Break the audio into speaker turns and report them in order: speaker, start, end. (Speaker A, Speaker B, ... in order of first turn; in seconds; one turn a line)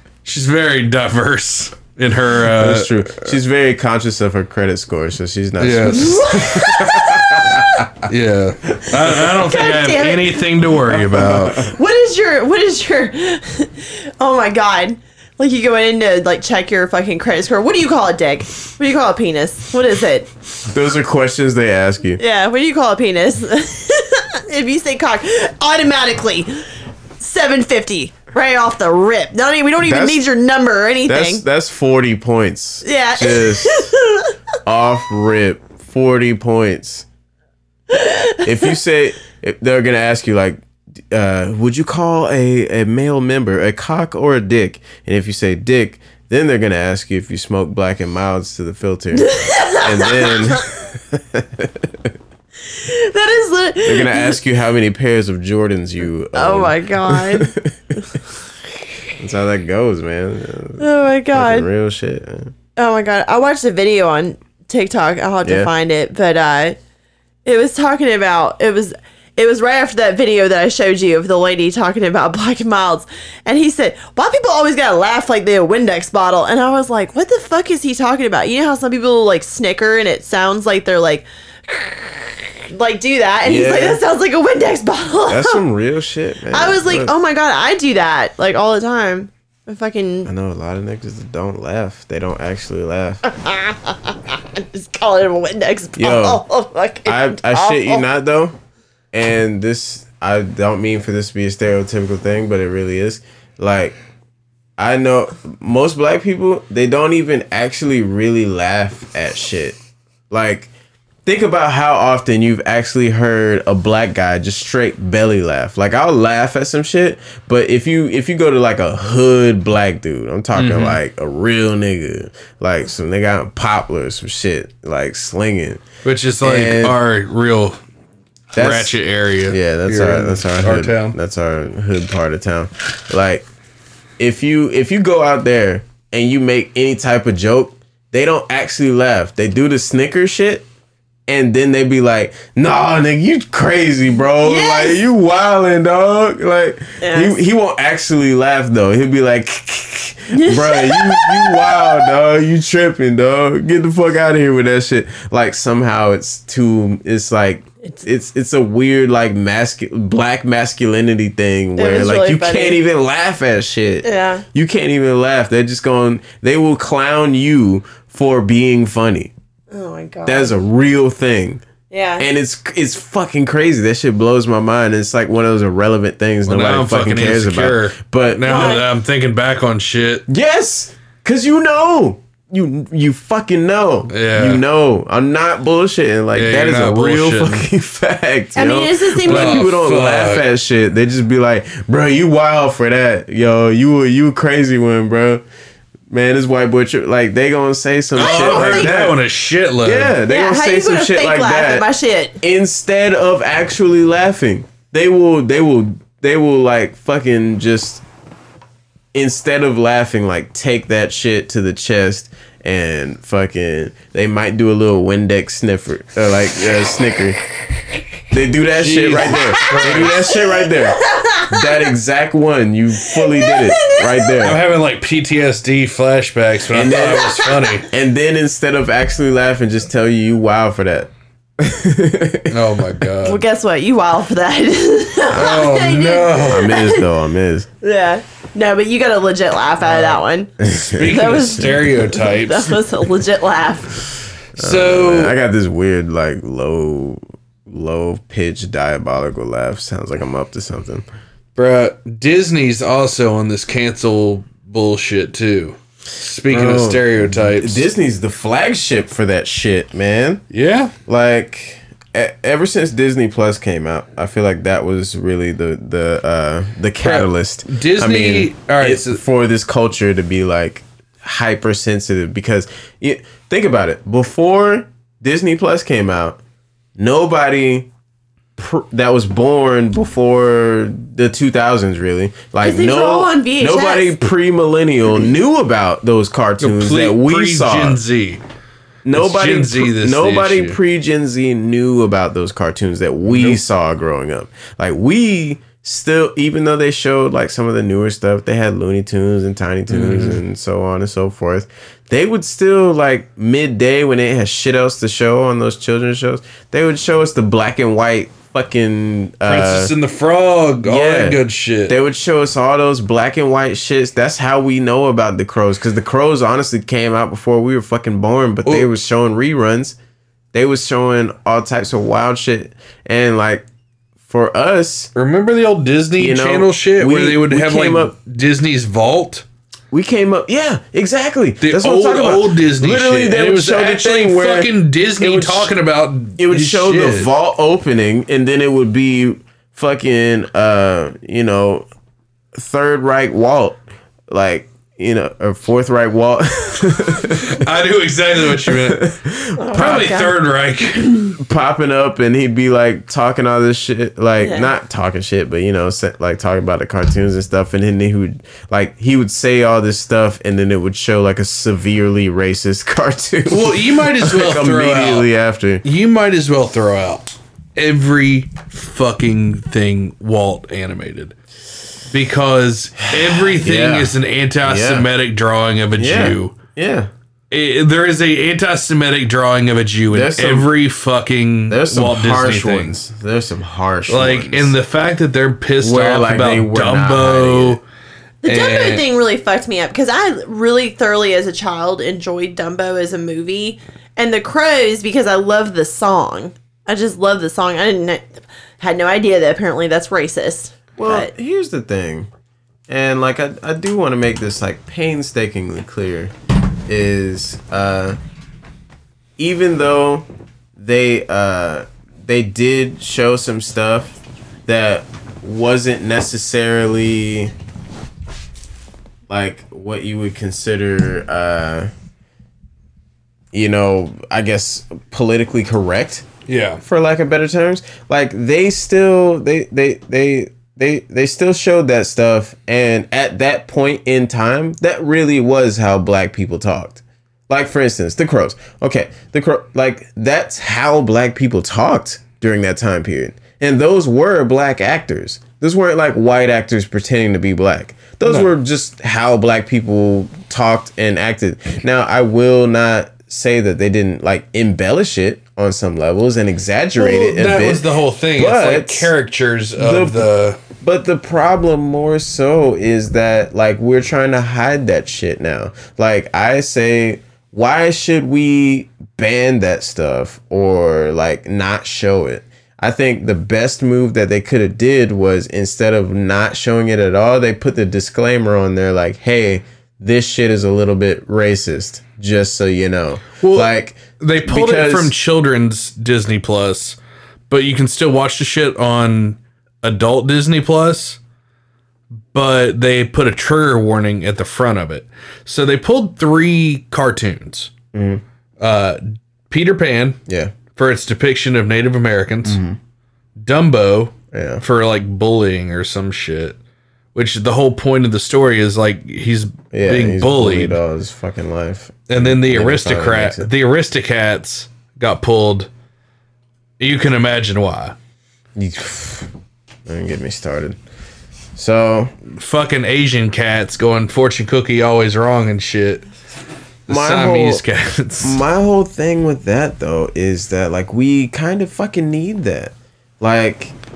Speaker A: 0.2-3.1
Speaker B: 2.5-7.9
Speaker A: 5.6-6.2
Speaker C: 5.9-7.6
Speaker A: 8.0-11.7
Speaker C: 9.1-10.5
Speaker B: 10.8-11.7
Speaker C: 11.6-20.3
Speaker B: 20.7-22.2
Speaker C: 22.2-26.6
Speaker C: 27.2-31.4
Speaker B: 29.8-30.2
Speaker B: 31.1-33.9
Speaker C: 32.8-34.3
Speaker B: 34.6-37.0
Speaker C: 37.9-38.5
Speaker B: 38.4-52.1
Speaker C: 49.1-50.7
Speaker C: 52.6-54.4
Speaker B: 53.8-57.7
Speaker C: 56.3-57.5
Speaker B: 59.2-62.5
Speaker C: 60.8-61.7
Speaker C: 62.8-66.8
Speaker B: 65.4-65.7
Speaker C: 67.4-85.6
Speaker B: 83.4-84.0
Speaker B: 85.2-87.1
Speaker C: 86.5-90.3
Speaker B: 90.2-93.2
Speaker C: 93.2-98.0
Speaker B: 96.0-96.4
Speaker B: 97.0-98.5
Speaker B: 99.1-104.0
Speaker B: 104.8-109.8
Speaker B: 110.3-110.7
Speaker B: 111.2-125.8
Speaker A: 120.5-121.0
Speaker A: 126.0-127.8
Speaker B: 126.4-127.0
Speaker A: 128.5-131.2
Speaker B: 128.5-133.4
Speaker B: 134.2-140.6
Speaker B: 141.3-169.3
Speaker C: 144.4-145.0
Speaker C: 147.0-147.3
Speaker C: 150.3-152.1
Speaker C: 161.8-162.8
Speaker C: 164.0-164.4
Speaker C: 169.7-170.5
Speaker B: 170.2-171.6
Speaker C: 171.9-172.2
Speaker B: 172.2-178.8
Speaker A: 176.5-180.2
Speaker C: 178.4-178.8
Speaker B: 180.3-195.4
Speaker A: 184.1-184.6
Speaker A: 186.3-187.7
Speaker C: 188.6-189.6
Speaker A: 189.2-190.4
Speaker B: 196.1-199.2
Speaker A: 198.2-200.2
Speaker C: 198.2-198.9
Speaker B: 199.8-201.9
Speaker C: 200.3-202.4
Speaker B: 202.4-208.0
Speaker B: 209.1-217.4
Speaker B: 218.3-224.6
Speaker A: 218.8-220.3
Speaker C: 219.5-220.1
Speaker C: 220.6-221.6
Speaker C: 223.0-224.4
Speaker A: 224.4-227.9
Speaker B: 226.7-232.7
Speaker C: 227.3-227.7
Speaker A: 232.5-233.4
Speaker C: 233.2-237.0
Speaker A: 235.3-236.7
Speaker B: 235.3-235.6
Speaker B: 236.4-237.7
Speaker C: 237.8-240.5
Speaker B: 240.6-241.9
Speaker A: 241.0-242.8
Speaker C: 241.1-244.0
Speaker A: 244.6-245.3
Speaker B: 244.6-251.1
Speaker A: 251.6-257.9
Speaker B: 256.5-260.4
Speaker A: 260.5-260.9
Speaker B: 261.1-276.4
Speaker A: 267.0-269.2
Speaker B: 277.0-277.9
Speaker B: 278.6-288.0
Speaker C: 282.6-284.3
Speaker A: 286.6-288.4
Speaker B: 289.0-309.9
Speaker A: 289.1-290.8
Speaker A: 293.3-293.6
Speaker A: 299.9-300.4
Speaker A: 309.4-312.0
Speaker B: 310.8-320.0
Speaker B: 320.5-323.6
Speaker B: 324.3-325.1
Speaker A: 325.1-329.4
Speaker B: 326.2-328.1
Speaker B: 329.9-335.7
Speaker A: 331.6-337.3
Speaker B: 336.4-341.9
Speaker B: 342.5-347.6
Speaker A: 347.4-349.1
Speaker B: 348.6-350.2
Speaker C: 349.6-350.3
Speaker A: 349.7-351.1
Speaker B: 351.4-365.8
Speaker C: 354.4-354.7
Speaker A: 363.5-365.3
Speaker A: 365.8-371.3
Speaker A: 372.1-376.6
Speaker B: 373.1-375.1
Speaker B: 375.9-377.1
Speaker A: 377.5-382.9
Speaker B: 380.1-380.7
Speaker B: 381.7-384.8
Speaker A: 384.1-387.8
Speaker B: 385.8-387.8
Speaker C: 388.4-401.3
Speaker A: 388.4-389.0
Speaker B: 401.0-402.3
Speaker B: 402.9-406.3
Speaker B: 406.9-408.2
Speaker B: 409.4-417.5
Speaker B: 419.3-421.9
Speaker B: 423.5-426.3
Speaker A: 426.5-426.8
Speaker B: 426.8-459.1
Speaker A: 457.0-460.6
Speaker B: 459.8-485.1
Speaker A: 483.4-487.0
Speaker A: 487.5-491.2
Speaker A: 492.3-497.7
Speaker B: 497.9-498.2
Speaker A: 498.6-500.2
Speaker B: 500.3-500.6
Speaker A: 500.7-502.6
Speaker B: 502.4-502.8
Speaker A: 503.4-506.6
Speaker B: 504.3-504.6
Speaker A: 507.1-510.8
Speaker B: 509.7-513.5
Speaker A: 512.1-515.7
Speaker A: 516.8-517.9
Speaker B: 518.5-519.3
Speaker B: 519.9-520.8
Speaker B: 521.5-522.1
Speaker A: 522.3-526.0
Speaker A: 526.9-528.4
Speaker B: 526.9-527.6
Speaker B: 528.2-533.7